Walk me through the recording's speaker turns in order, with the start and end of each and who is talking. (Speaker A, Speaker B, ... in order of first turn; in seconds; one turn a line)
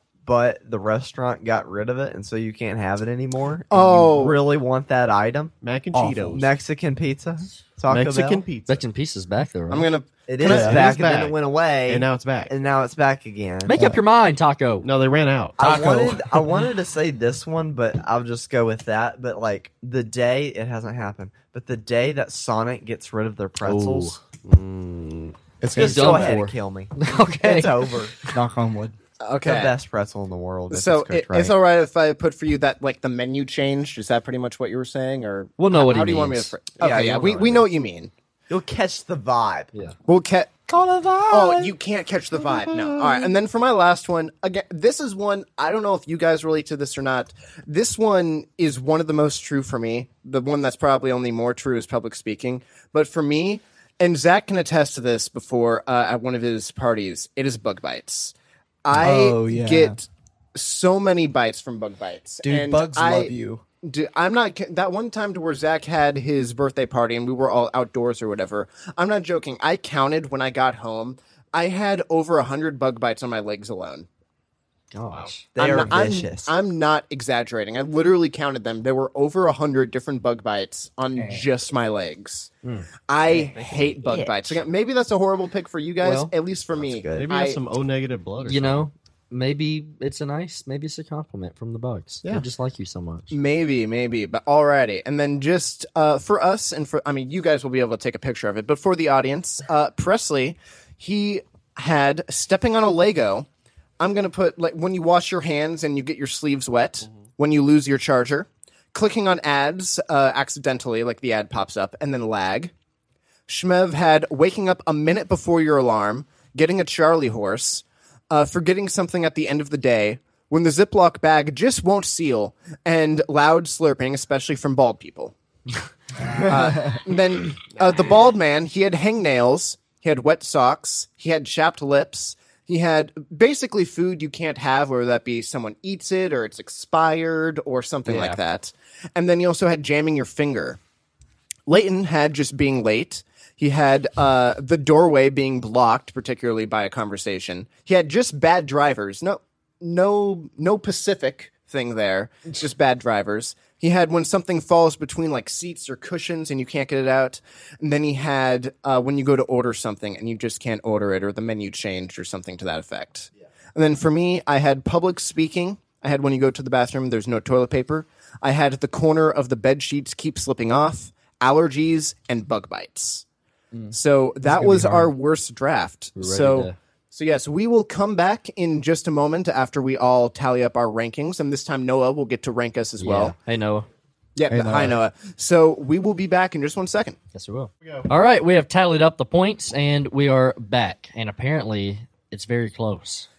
Speaker A: 0.2-5.5
Speaker B: 3.7-4.4
Speaker C: 5.6-6.5
Speaker D: 5.9-6.4
Speaker A: 6.3-8.5
Speaker C: 7.9-8.8
Speaker E: 8.7-9.9
Speaker B: 9.7-10.8
Speaker A: 10.3-13.7
Speaker C: 10.4-12.5
Speaker D: 10.4-10.8
Speaker E: 13.7-14.9
Speaker D: 13.7-14.0
Speaker C: 14.8-15.6
Speaker A: 15.6-24.2
Speaker D: 15.6-16.4
Speaker C: 23.6-25.3
Speaker E: 23.8-24.1
Speaker D: 25.6-26.4
Speaker A: 25.7-28.1
Speaker E: 25.8-28.3
Speaker D: 28.3-28.9
Speaker B: 29.2-29.7
Speaker A: 29.4-31.5
Speaker B: 30.7-38.1
Speaker E: 35.6-37.6
Speaker A: 36.8-37.6
Speaker A: 38.5-39.7
Speaker B: 40.1-40.6
Speaker A: 40.7-41.7
Speaker B: 41.3-74.1
Speaker A: 42.6-43.1
Speaker D: 58.9-60.0
Speaker D: 62.4-63.6
Speaker E: 74.9-75.5
Speaker A: 75.5-76.5
Speaker B: 75.5-82.5
Speaker D: 81.1-81.5
Speaker E: 82.6-82.9
Speaker B: 83.1-87.6
Speaker A: 83.2-84.6
Speaker E: 86.0-86.3
Speaker A: 86.8-87.3
Speaker C: 87.2-88.8
Speaker E: 88.4-93.3
Speaker B: 93.3-103.5
Speaker B: 104.0-112.7
Speaker B: 113.5-125.3
Speaker D: 126.3-127.0
Speaker B: 126.4-140.8
Speaker D: 138.1-138.4
Speaker B: 141.7-173.2
Speaker B: 173.9-183.3
Speaker D: 174.4-175.1
Speaker E: 176.2-176.7
Speaker E: 183.0-183.9
Speaker B: 184.3-187.2
Speaker D: 184.5-185.0
Speaker E: 187.3-193.3
Speaker C: 187.8-188.1